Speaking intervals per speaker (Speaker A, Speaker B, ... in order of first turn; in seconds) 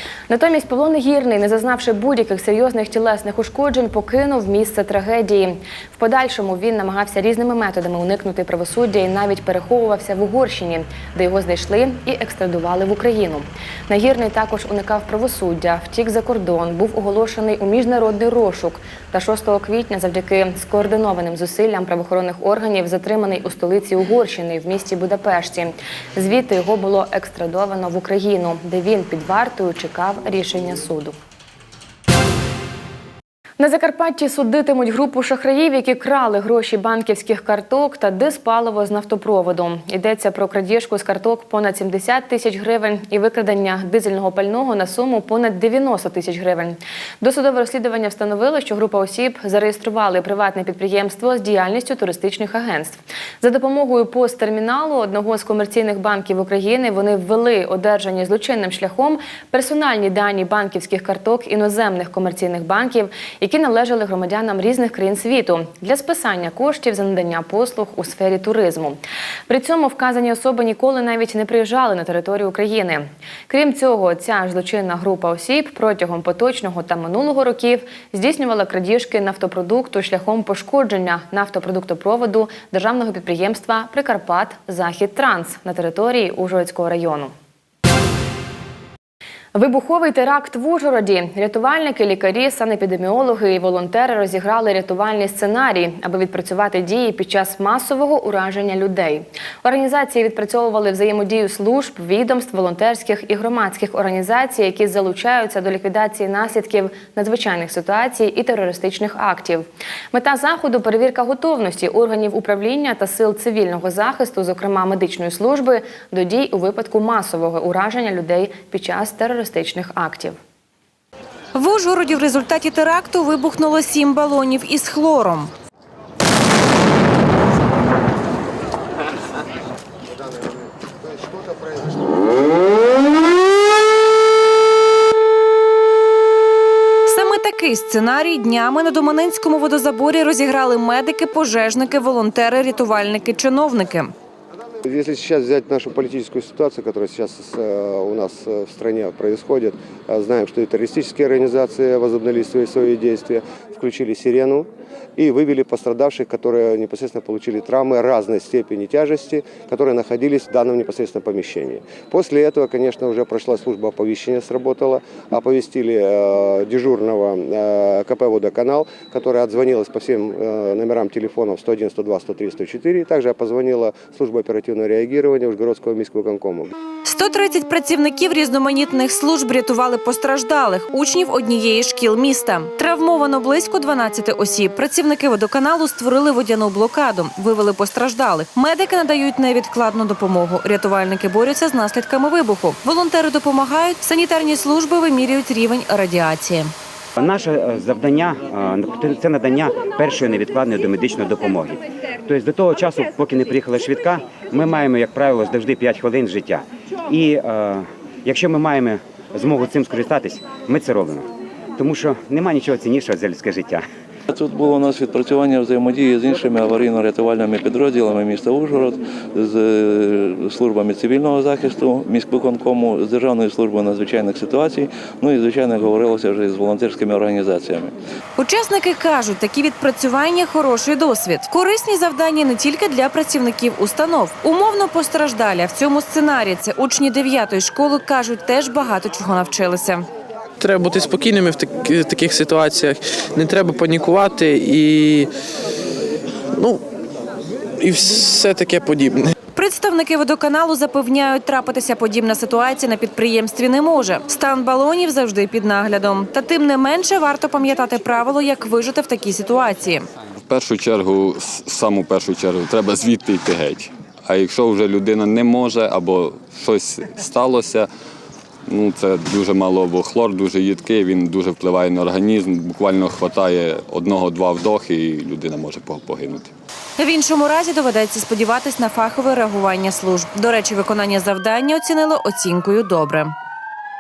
Speaker A: 0.3-31.2, 33.6-87.3, 89.5-120.4
Speaker B: 121.5-125.5, 137.1-144.1, 177.0-196.7, 228.4-240.1, 249.6-260.1, 277.0-283.3
Speaker C: 144.8-176.7
Speaker D: 197.2-213.9
Speaker E: 214.3-227.9
Speaker F: 240.6-245.3, 246.5-246.8, 247.8-249.3
Speaker G: 260.5-267.9, 268.7-276.5